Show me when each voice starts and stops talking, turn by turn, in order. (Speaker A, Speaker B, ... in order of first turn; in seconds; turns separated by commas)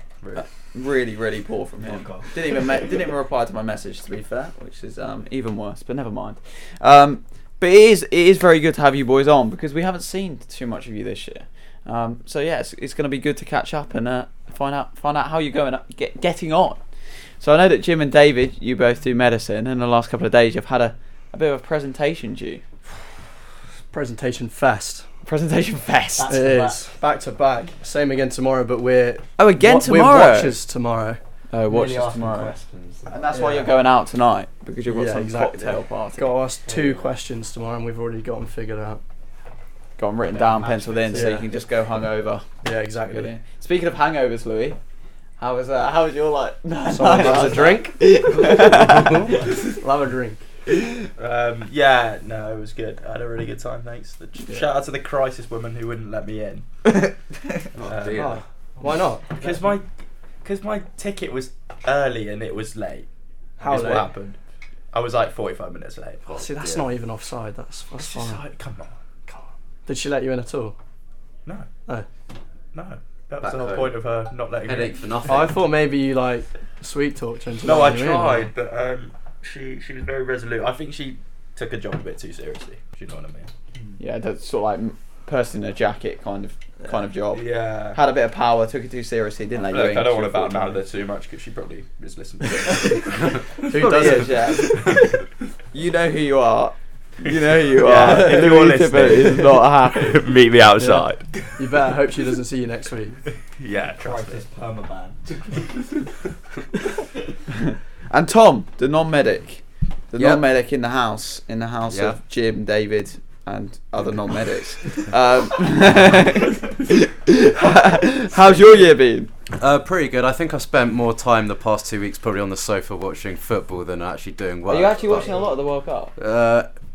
Speaker A: 0.3-16.8, Speaker B: 1.8-2.3, Speaker A: 17.4-22.6, Speaker C: 23.9-25.1, Speaker A: 25.2-26.4, Speaker B: 26.2-26.8, Speaker C: 26.3-31.2, Speaker A: 29.4-30.6, Speaker A: 31.5-32.5, Speaker B: 31.7-33.5, Speaker A: 33.1-36.3, Speaker C: 33.3-33.7, Speaker C: 34.9-39.0, Speaker B: 36.6-37.1, Speaker A: 40.0-42.5, Speaker B: 40.3-41.4, Speaker C: 41.1-41.5, Speaker C: 42.6-43.3, Speaker A: 43.0-44.8, Speaker A: 45.4-49.3, Speaker C: 46.9-50.4, Speaker B: 47.2-47.9, Speaker D: 51.2-56.9, Speaker C: 54.4-54.7, Speaker E: 57.8-58.4, Speaker D: 57.8-58.2, Speaker C: 58.1-59.7, Speaker D: 59.4-59.9, Speaker D: 60.4-63.1, Speaker C: 63.6-64.1, Speaker D: 63.6-64.4, Speaker D: 64.9-66.4, Speaker C: 66.3-68.4, Speaker E: 66.3-66.8, Speaker D: 68.0-69.4, Speaker C: 69.8-70.8, Speaker D: 72.7-75.1, Speaker E: 73.4-74.0, Speaker E: 74.6-75.6, Speaker C: 75.3-78.5, Speaker D: 77.6-83.9, Speaker A: 84.0-90.8, Speaker D: 87.3-88.0, Speaker D: 89.7-94.2, Speaker C: 93.7-94.5, Speaker A: 93.8-94.8, Speaker A: 95.7-100.2, Speaker D: 97.7-101.3, Speaker C: 97.9-98.6, Speaker C: 100.8-103.2, Speaker D: 103.6-104.4, Speaker B: 104.0-105.8, Speaker A: 107.7-119.3, Speaker E: 110.2-110.4, Speaker E: 111.9-112.2, Speaker E: 119.6-125.3, Speaker A: 124.7-126.1, Speaker B: 125.1-125.4, Speaker E: 126.2-126.7